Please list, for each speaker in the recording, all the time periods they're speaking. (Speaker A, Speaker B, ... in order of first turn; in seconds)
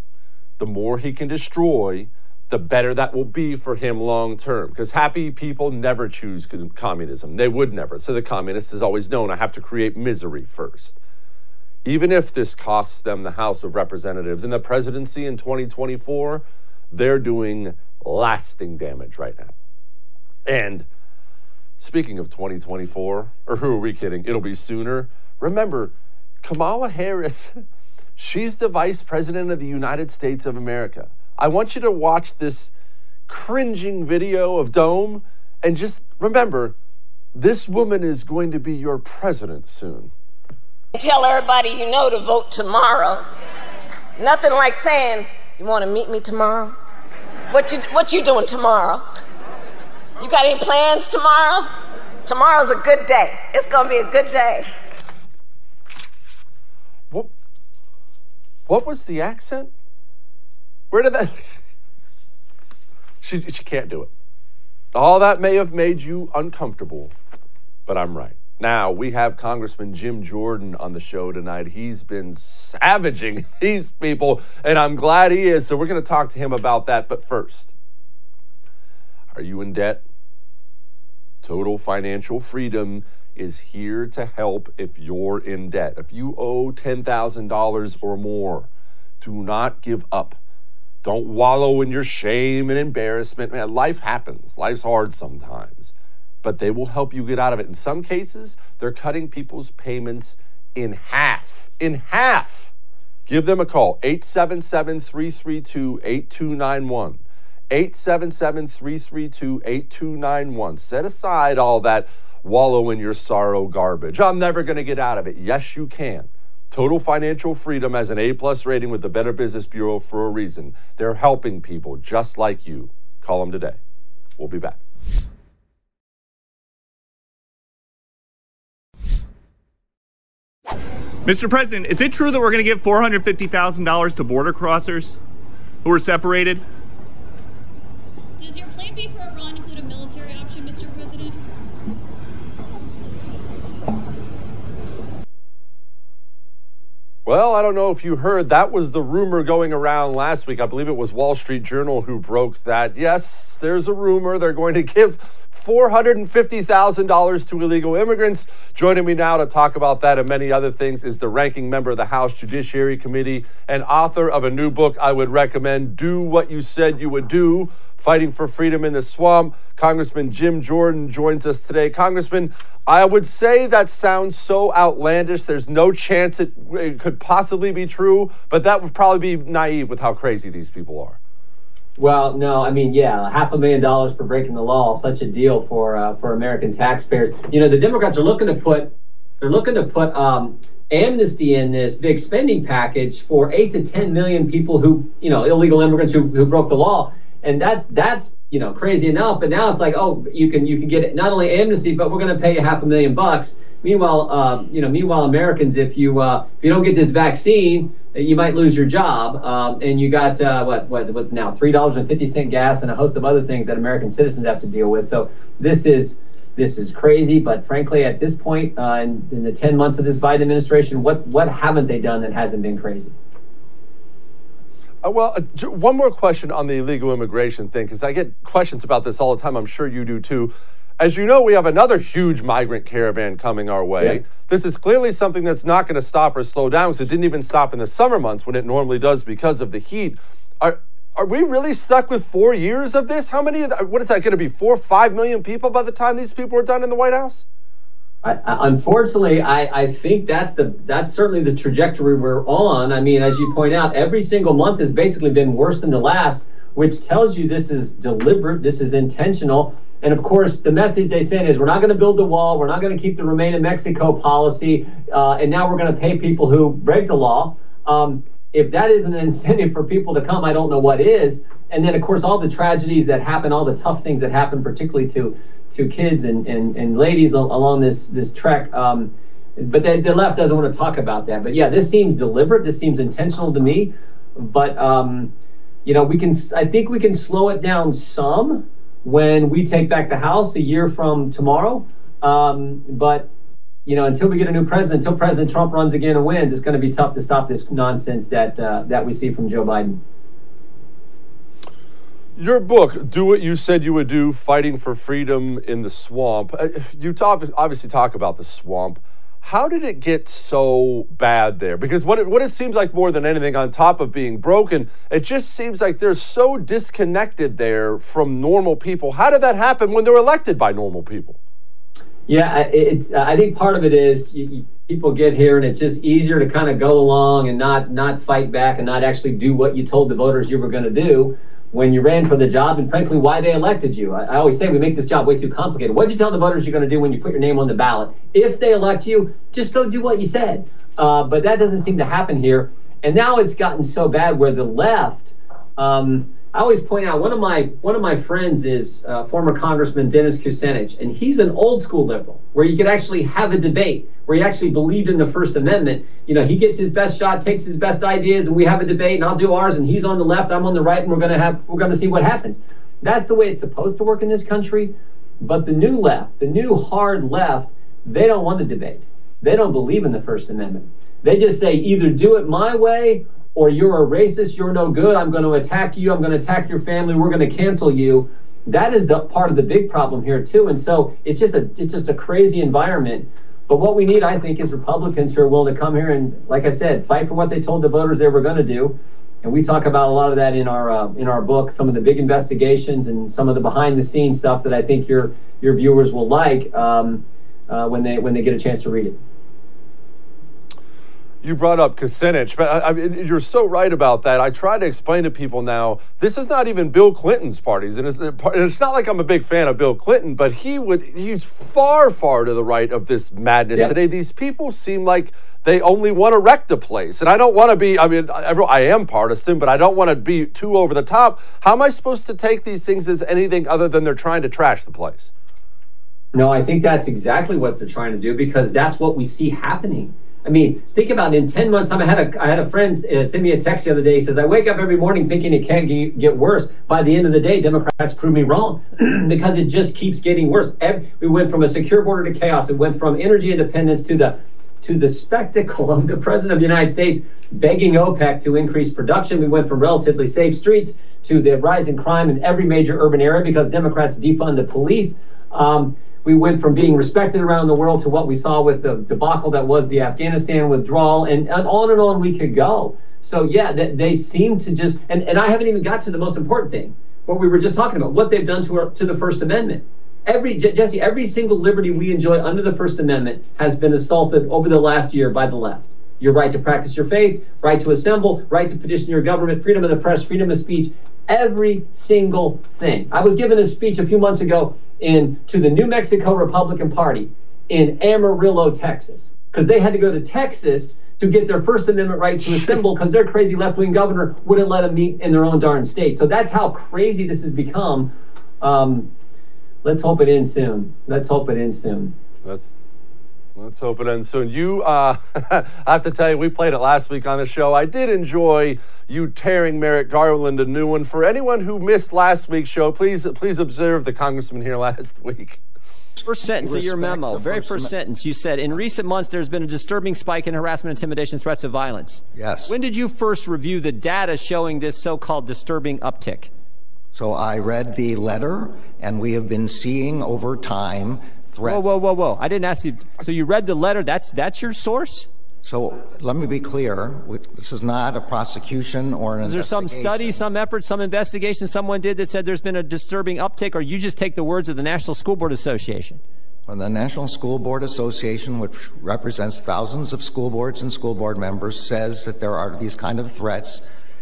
Speaker A: 0.6-11.0, 11.8-19.5, 20.4-20.9, 21.8-27.6, 28.2-32.7, 33.3-36.7, 37.3-40.1, 58.7-59.7, 60.9-61.5, 63.2-64.1, 64.9-67.1, 67.9-77.7, 79.3-80.0, 81.4-88.7, 89.2-90.4, 91.0-102.7, 103.3-123.8, 124.4-124.8, 147.2-181.2, 225.0-247.4, 302.4-321.4, 401.4-425.3, 502.4-502.7, 503.6-515.6
Speaker B: 40.9-43.2, 44.2-46.7, 47.5-49.0, 50.2-51.7, 52.2-54.7
Speaker C: 131.2-135.2, 135.8-136.6
Speaker D: 138.4-141.4
Speaker E: 182.0-223.1, 248.2-285.3, 285.8-293.3, 293.9-300.0, 322.3-399.2, 426.3-499.1, 499.8-502.1
Speaker F: 516.2-526.5, 531.6-535.3, 539.4-546.2
Speaker G: 516.5-517.9, 522.3-522.7, 527.1-531.9, 535.6-540.4, 546.7-553.8